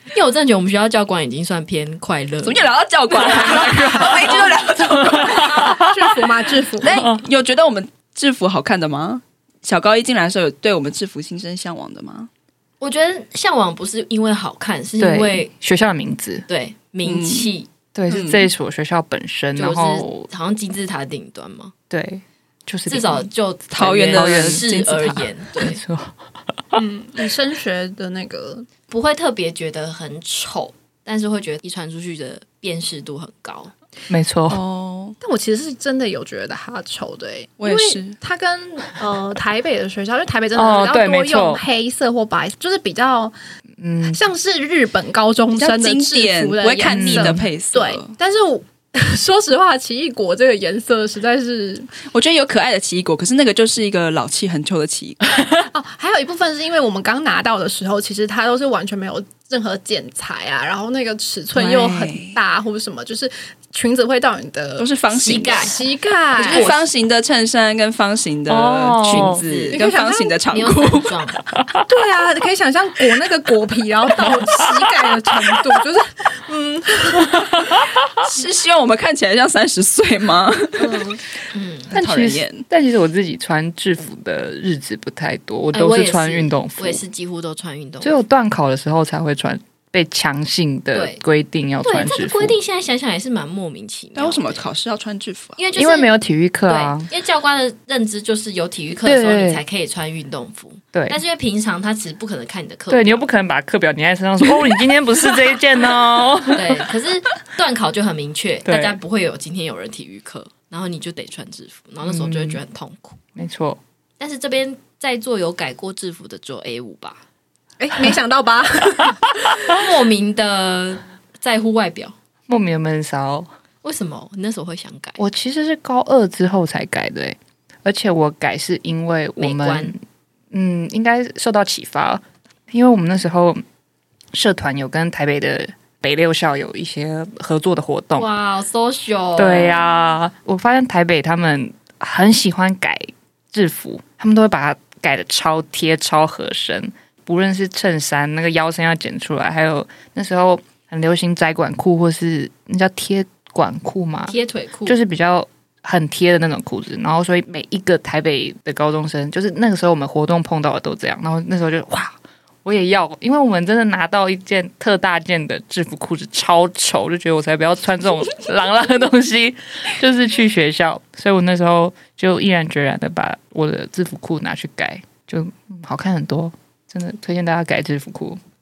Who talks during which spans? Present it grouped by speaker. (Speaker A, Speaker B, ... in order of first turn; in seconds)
Speaker A: 0.1-2.7, 3.3-4.2, 12.8-15.5, 16.5-17.7, 19.6-21.7, 22.9-25.8, 28.9-33.7, 65.1-65.8, 66.4-66.8, 69.0-71.5, 81.5-81.9, 85.7-88.2, 90.9-91.2, 91.8-94.7, 95.6-96.1, 96.7-103.2, 106.5-113.2, 114.2-117.2, 119.6-122.2, 123.8-125.2, 129.4-129.9, 138.2-140.0, 154.3-155.0
Speaker B: 2.4-5.7, 6.8-12.3, 17.0-17.5, 18.1-18.5, 23.7-25.2, 34.5-35.2, 37.6-38.2, 45.5-48.1, 52.1-55.4, 61.5-62.4, 64.8-65.7, 66.4-71.1, 78.2-81.2, 81.9-82.6, 94.2-95.6
Speaker C: 3.4-5.9, 6.8-7.2, 15.0-16.5, 17.9-20.3, 21.9-23.3, 24.1-25.0, 25.6-26.2, 34.1-34.6, 40.5-41.6, 43.8-44.2, 46.8-47.5, 68.5-69.5, 71.5-71.8, 81.9-87.0, 88.0-92.6, 95.8-97.1, 99.0-99.6, 100.9-101.2, 102.9-106.8, 108.7-109.0, 112.0-112.6, 113.4-113.8, 122.5-123.5, 125.2-130.0, 130.5-133.6, 134.3-138.3, 139.4-178.4
Speaker D: 5.5-6.9, 26.7-28.7, 35.2-43.3, 44.1-51.9, 55.6-64.9, 65.5-66.8, 69.7-70.3, 71.9-77.8, 80.8-81.1, 117.8-119.3